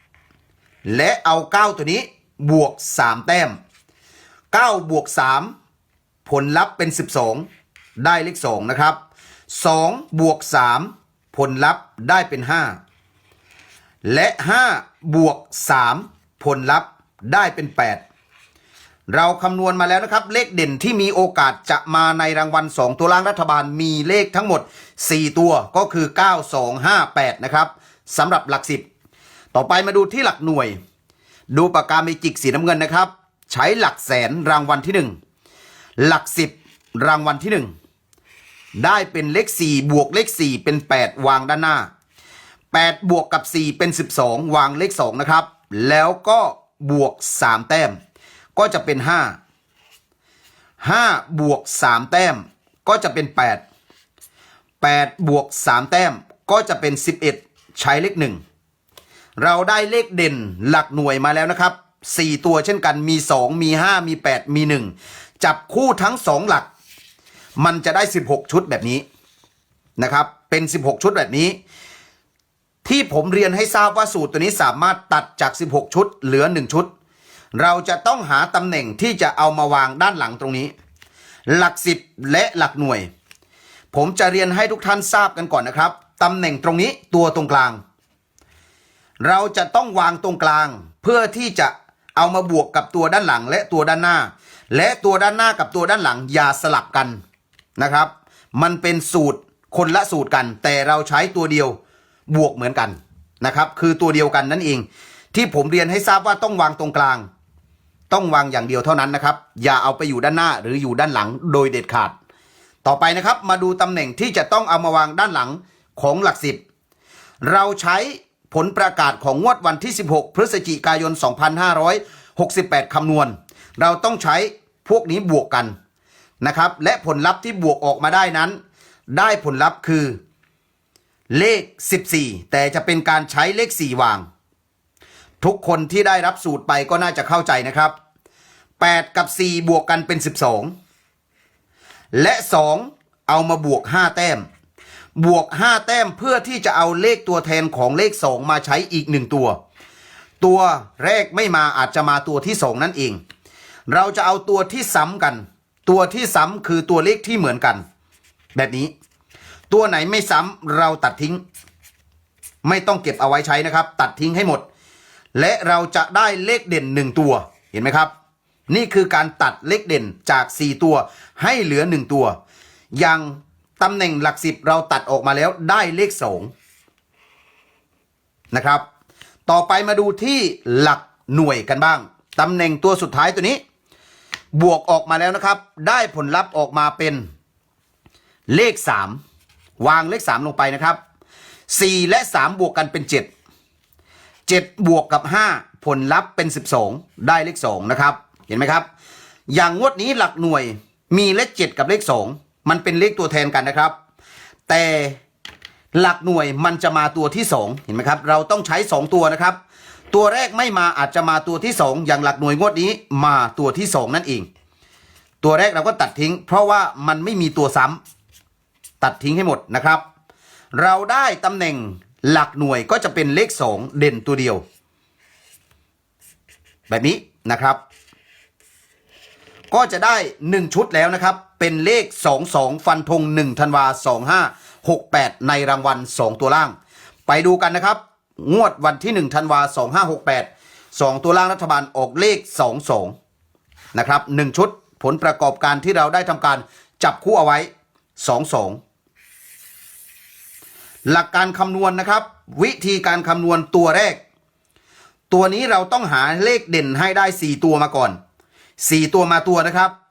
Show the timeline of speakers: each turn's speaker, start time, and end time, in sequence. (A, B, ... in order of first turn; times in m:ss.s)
0:00.9-0:03.6 A
0:04.5-0:05.5 A
0:06.2-0:07.4 A
0:08.0-0:09.0 A
0:09.5-0:12.8 A
0:14.0-0:18.0 A
0:19.1-0:28.9 A
0:29.5-0:30.8 A
0:31.5-0:35.1 A
0:36.0-0:37.7 A
0:38.8-0:41.9 A
0:42.7-0:48.0 A
0:48.6-0:49.4 A
0:50.8-0:53.6 A
0:54.8-0:58.4 A
0:59.4-1:06.7 A
1:07.6-1:09.0 A
1:10.0-1:11.6 A
1:12.8-1:16.9 A
1:17.6-1:20.7 A
1:21.5-1:23.1 A
1:23.9-1:27.8 A
1:29.2-1:37.2 A
1:37.8-1:41.8 A
1:42.3-1:47.3 A
1:48.1-1:52.1 A
1:52.8-1:56.6 A
1:57.4-2:05.7 A
2:06.4-2:08.6 A
2:09.1-2:10.2 A
2:11.3-2:14.2 A
2:15.4-2:17.9 A
2:18.8-2:20.7 A
2:22.1-2:24.4 A
2:25.2-2:29.6 A
2:30.4-2:33.2 A
2:33.9-2:37.8 A
2:38.6-2:38.9 A
2:39.7-2:41.4 A
2:42.6-2:44.6 A
2:45.4-2:48.1 A
2:48.7-2:52.4 A
2:53.0-2:56.5 A
2:58.5-2:58.8 A
2:59.5-3:03.6 A
3:04.6-3:07.2 A
3:08.5-3:09.2 A
3:09.8-3:11.0 A
3:11.7-3:13.3 A
3:14.5-3:18.9 A
3:19.5-3:23.9 A
3:24.7-3:25.2 A
3:25.9-3:29.6 A
3:30.1-3:34.5 A
3:35.4-3:38.0 A
3:39.0-3:40.0 A
3:40.8-3:44.6 A
3:46.9-3:47.8 A
3:49.7-3:56.7 A
3:57.3-4:03.1 A
4:04.0-4:08.8 A
4:11.1-4:14.2 A
4:15.3-4:18.2 A
4:18.8-4:19.9 A